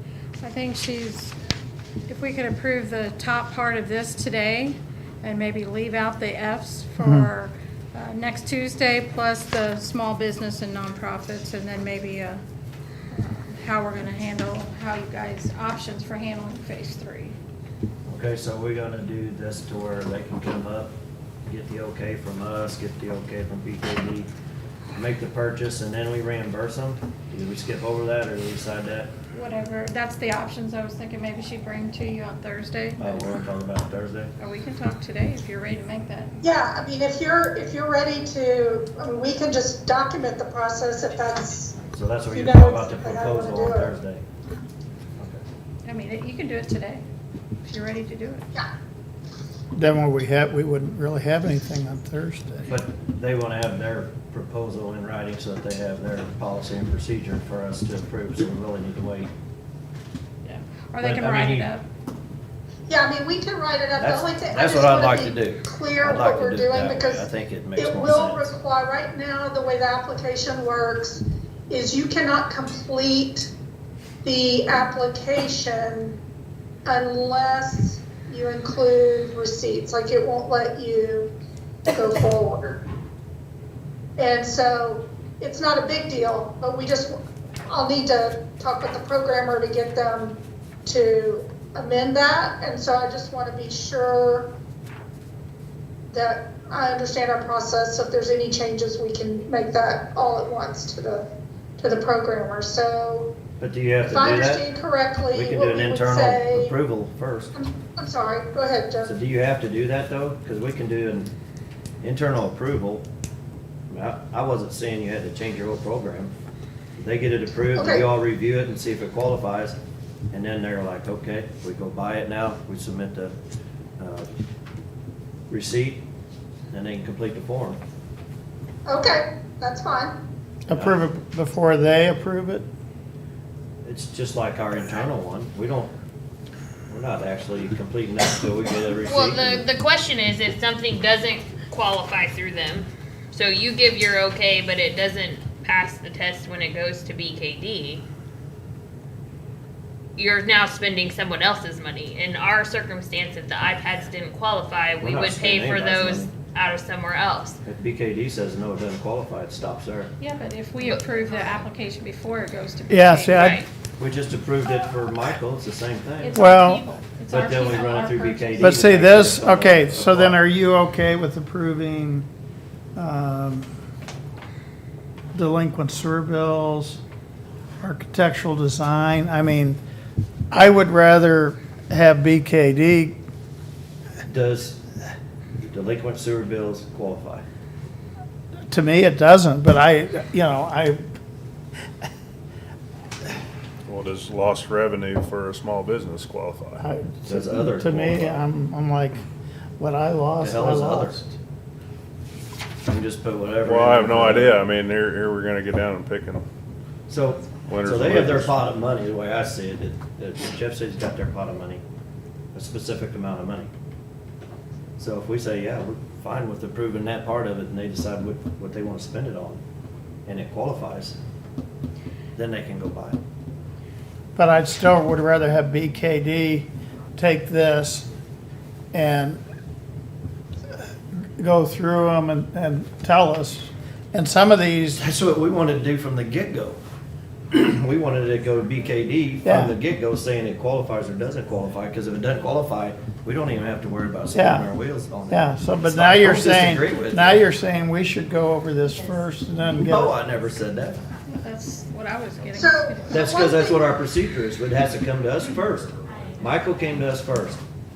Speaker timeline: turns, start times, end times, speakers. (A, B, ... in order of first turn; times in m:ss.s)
0:00.4-0:01.4 A
0:02.1-0:12.4 A
0:07.0-0:07.3 B
0:13.1-0:17.4 A
0:18.1-0:20.9 C
0:21.5-0:24.3 C
0:25.0-0:29.1 C
0:29.3-0:33.4 A
0:33.0-0:34.3 C
0:34.4-0:36.4 A
0:36.4-0:43.9 D
0:41.8-0:44.2 C
0:45.2-0:45.4 C
0:45.8-0:47.0 A
0:47.6-0:48.5 A
0:49.7-0:52.7 B
0:52.7-0:59.3 C
1:00.4-1:01.8 A
1:01.0-1:01.7 C
1:02.9-1:13.5 D
1:04.0-1:08.5 C
1:14.2-1:16.2 D
1:16.8-1:21.3 D
1:21.9-1:22.8 D
1:24.2-1:27.2 D
1:27.7-1:34.5 D
1:36.1-1:43.4 D
1:43.6-1:44.7 C
1:44.0-1:46.8 D
1:45.3-1:47.6 C
1:47.6-1:49.1 D
1:49.0-1:51.3 C
1:52.0-1:53.1 C
1:53.9-1:56.3 C
1:57.0-1:59.8 C
1:57.8-1:58.1 D
2:00.3-2:03.3 C
2:04.0-2:04.3 C
2:05.5-2:06.0 C
2:06.7-2:07.8 C
2:08.9-2:10.2 D
2:10.7-2:12.7 B
2:10.7-2:11.0 C
2:13.9-2:15.9 C
2:16.9-2:19.6 C
2:19.0-2:28.0 E
2:30.2-2:37.6 E
2:35.0-2:36.3 C
2:37.7-2:40.1 C
2:40.2-2:43.5 A
2:40.8-2:41.6 E
2:42.9-2:43.6 B
2:43.1-2:43.7 E
2:44.0-2:46.4 C
2:46.2-2:49.0 A
2:46.4-2:46.8 B
2:47.3-2:50.4 C
2:48.6-2:52.3 B
2:53.0-2:53.7 B
2:55.3-2:57.0 B
2:57.8-2:59.8 B
3:00.5-3:03.2 B
3:04.2-3:04.8 C
3:05.7-3:07.4 C
3:08.7-3:11.0 B
3:13.9-3:16.8 F
3:16.8-3:19.2 B
3:17.2-3:18.4 C
3:19.8-3:21.4 B
3:20.4-3:21.2 C
3:22.8-3:24.6 C
3:23.6-3:26.4 F
3:27.1-3:31.8 C
3:27.6-3:28.7 F
3:32.5-3:33.7 C
3:35.0-3:39.6 C
3:40.3-3:41.2 C
3:42.4-3:43.2 C
3:44.4-3:48.1 B
3:48.9-3:49.4 B
3:51.4-3:55.0 B
3:55.0-3:56.8 C
3:57.5-4:07.4 C
3:59.4-3:59.7 B
4:04.4-4:04.7 B
4:05.3-4:10.1 B
4:09.9-4:11.0 C
4:11.3-4:13.3 A
4:12.6-4:13.9 D
4:13.1-4:17.6 C